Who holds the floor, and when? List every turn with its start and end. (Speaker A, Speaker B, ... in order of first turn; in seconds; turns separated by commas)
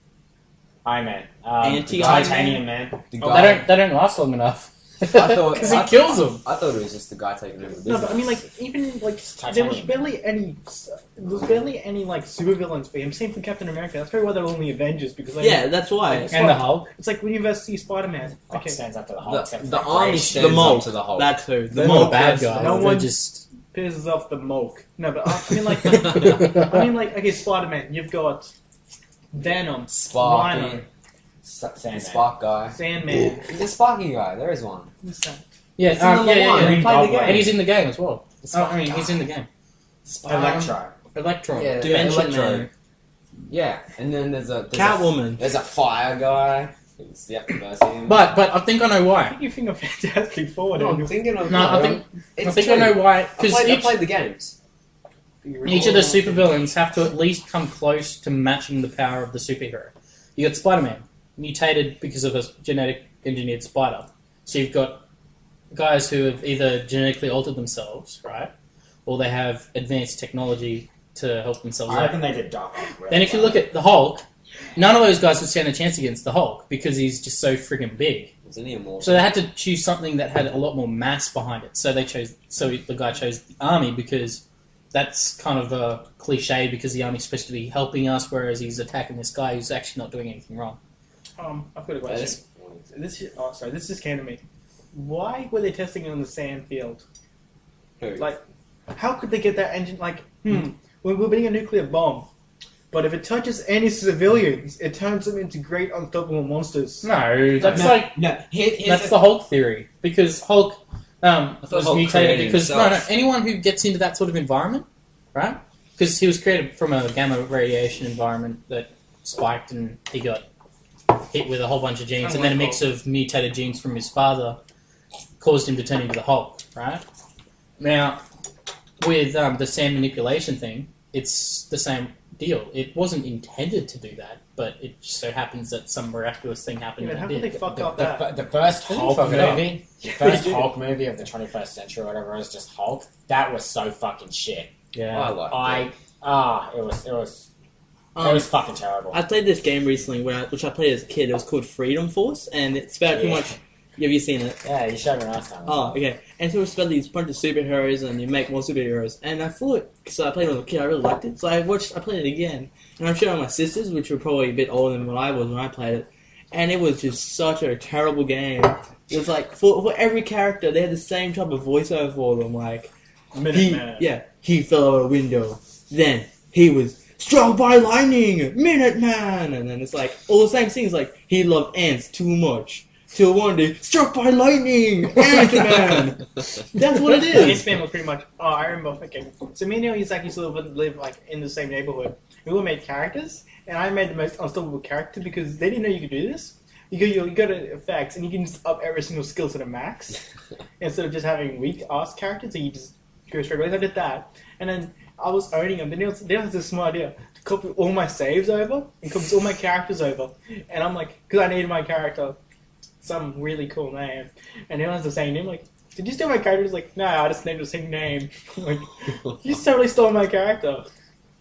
Speaker A: 0.8-3.0, Speaker B: 1.6-2.6, Speaker C: 3.1-3.7, Speaker D: 3.2-3.6, Speaker E: 3.2-6.4, Speaker C: 5.1-8.5, Speaker D: 7.8-15.7, Speaker A: 9.4-10.1, Speaker B: 15.4-16.3, Speaker E: 16.1-16.9, Speaker D: 16.3-18.8, Speaker A: 18.5-20.9, Speaker C: 19.2-21.4, Speaker B: 20.3-22.9, Speaker E: 21.7-23.4, Speaker D: 21.8-28.5, Speaker E: 26.2-26.5, Speaker D: 29.3-30.9, Speaker C: 29.9-30.8, Speaker A: 31.4-32.3, Speaker C: 31.9-34.9, Speaker D: 32.7-33.5, Speaker D: 35.0-35.4, Speaker E: 35.8-39.5, Speaker C: 35.9-37.6, Speaker A: 36.5-37.6, Speaker C: 38.4-39.1, Speaker A: 40.1-41.0, Speaker E: 40.3-42.0, Speaker C: 41.5-42.7, Speaker B: 41.8-42.7, Speaker C: 43.5-48.3, Speaker B: 44.7-45.5, Speaker E: 48.0-49.4, Speaker D: 49.2-51.3, Speaker C: 50.7-54.5, Speaker E: 51.4-54.0, Speaker D: 55.4-56.5, Speaker E: 55.6-65.0, Speaker E: 65.7-68.5, Speaker E: 69.1-72.2, Speaker A: 71.9-73.7, Speaker E: 73.1-74.2, Speaker E: 74.8-78.3, Speaker C: 78.5-79.4, Speaker E: 79.0-90.8, Speaker D: 91.4-94.4, Speaker C: 92.0-92.8, Speaker D: 94.9-97.0, Speaker C: 98.0-98.3, Speaker D: 98.2-102.3, Speaker D: 102.9-107.1, Speaker E: 107.0-108.2, Speaker A: 107.6-109.2, Speaker C: 107.7-108.0, Speaker E: 108.8-120.5, Speaker C: 111.6-113.0, Speaker E: 121.2-124.6, Speaker D: 122.2-122.8, Speaker E: 125.4-127.0, Speaker E: 127.8-128.2, Speaker E: 129.0-137.8, Speaker D: 137.0-138.3, Speaker A: 137.7-144.7, Speaker E: 138.9-139.8, Speaker D: 140.1-140.7, Speaker E: 144.9-145.3, Speaker C: 145.1-145.9, Speaker A: 145.5-147.5, Speaker B: 148.2-148.5, Speaker A: 148.2-149.2, Speaker B: 149.1-154.6, Speaker A: 153.1-153.6, Speaker A: 154.6-156.0, Speaker B: 155.7-172.9, Speaker D: 173.3-174.1, Speaker B: 173.5-186.2, Speaker D: 185.6-186.1, Speaker B: 186.8-187.6, Speaker D: 187.1-200.2, Speaker D: 200.8-212.4, Speaker D: 213.0-220.9